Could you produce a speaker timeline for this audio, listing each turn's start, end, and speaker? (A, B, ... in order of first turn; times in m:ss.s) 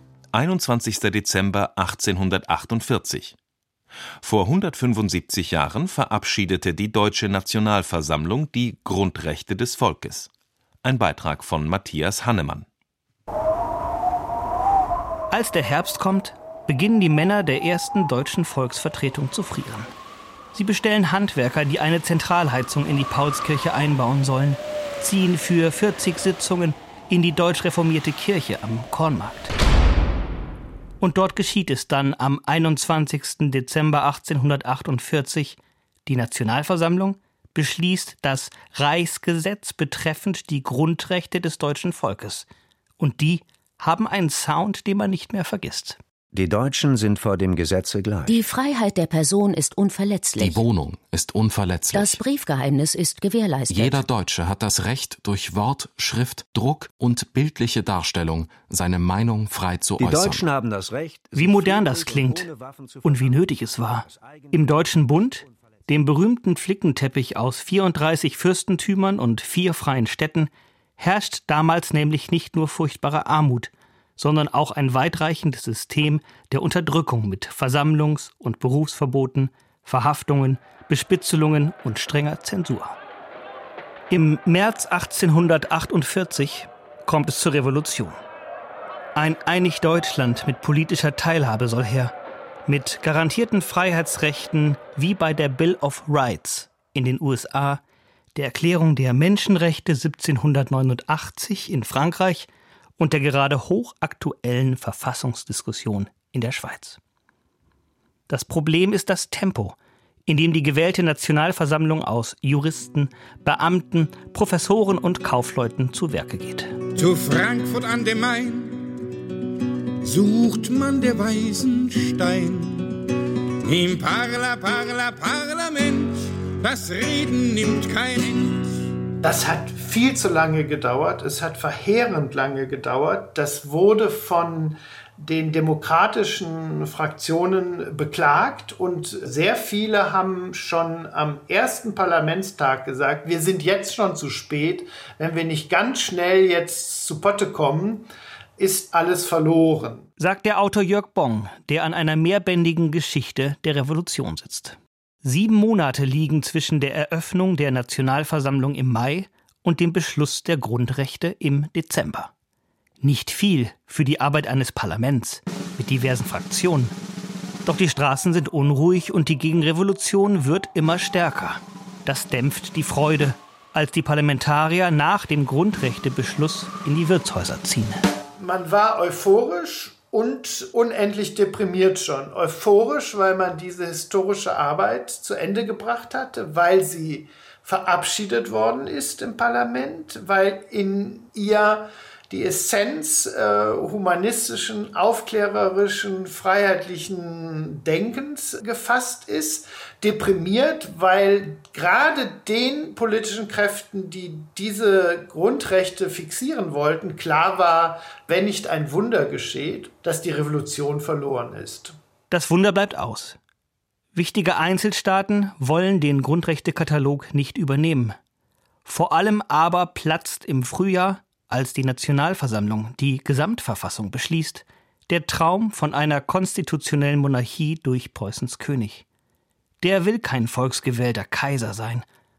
0:00.3-0:03.3 A
0:04.2-0:10.3 A
0:10.8-0:12.7 A
0:15.3-0:19.9 B
0:20.5-0:29.5 B
0:31.0-0:42.5 B
0:43.0-0:46.0 B
0:46.3-0:48.5 C
0:48.3-0:50.6 D
0:50.4-0:52.2 E
0:51.9-0:54.0 D
0:53.7-1:00.5 E
1:00.0-1:03.5 C
1:01.3-1:02.5 B
1:03.0-1:23.0 B
1:04.1-1:04.9 C
1:24.1-1:28.2 B
1:29.1-1:32.1 B
1:32.7-1:37.8 B
1:38.3-1:47.0 B
1:48.3-1:56.8 B
1:57.0-1:59.0 F
2:00.0-2:03.1 F
2:03.6-2:08.8 F
2:09.2-2:30.0 G
2:30.2-2:42.3 B
2:43.0-2:46.9 B
2:47.6-2:58.0 B
2:58.4-3:32.0 G
3:32.3-3:33.4 B
3:34.1-3:38.2 B
3:38.8-3:49.0 B
3:49.8-3:52.0 B